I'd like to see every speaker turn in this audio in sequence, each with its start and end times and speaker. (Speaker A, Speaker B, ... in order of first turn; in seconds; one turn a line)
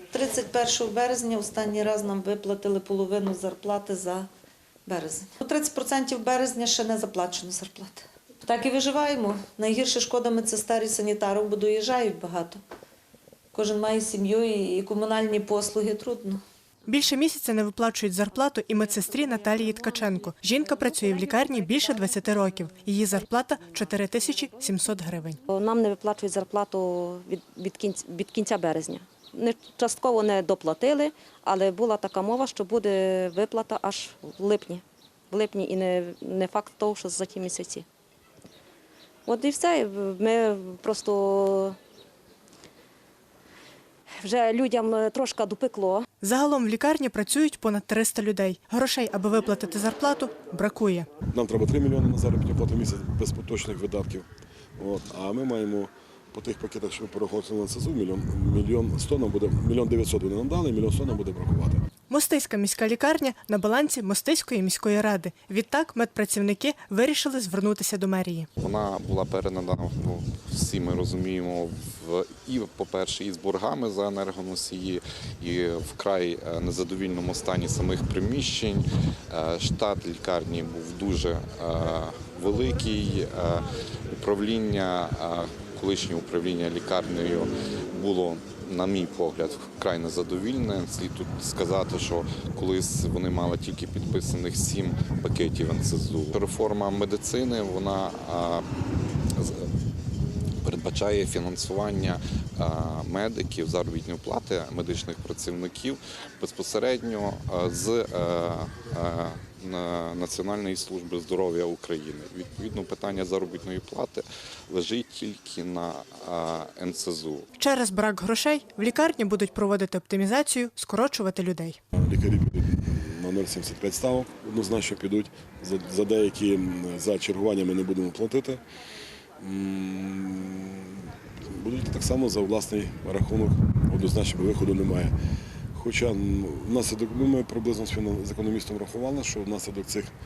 Speaker A: 0.1-4.3
Speaker A: 4.8-12.6
Speaker A: 13.5-16.4
Speaker B: 16.9-25.4
Speaker C: 25.5-37.9
Speaker C: 39.2-41.8
Speaker C: 44.2-46.0
Speaker B: 46.2-51.1
Speaker D: 51.3-54.3
Speaker D: 54.8-61.8
Speaker B: 62.1-68.5
Speaker E: 68.6-83.6
Speaker E: 84.2-98.6
Speaker E: 99.3-99.7
Speaker E: 100.6-117.5
Speaker B: 117.6-121.8
Speaker D: 121.9-128.6
Speaker D: 129.4-135.1
Speaker D: 135.7-140.1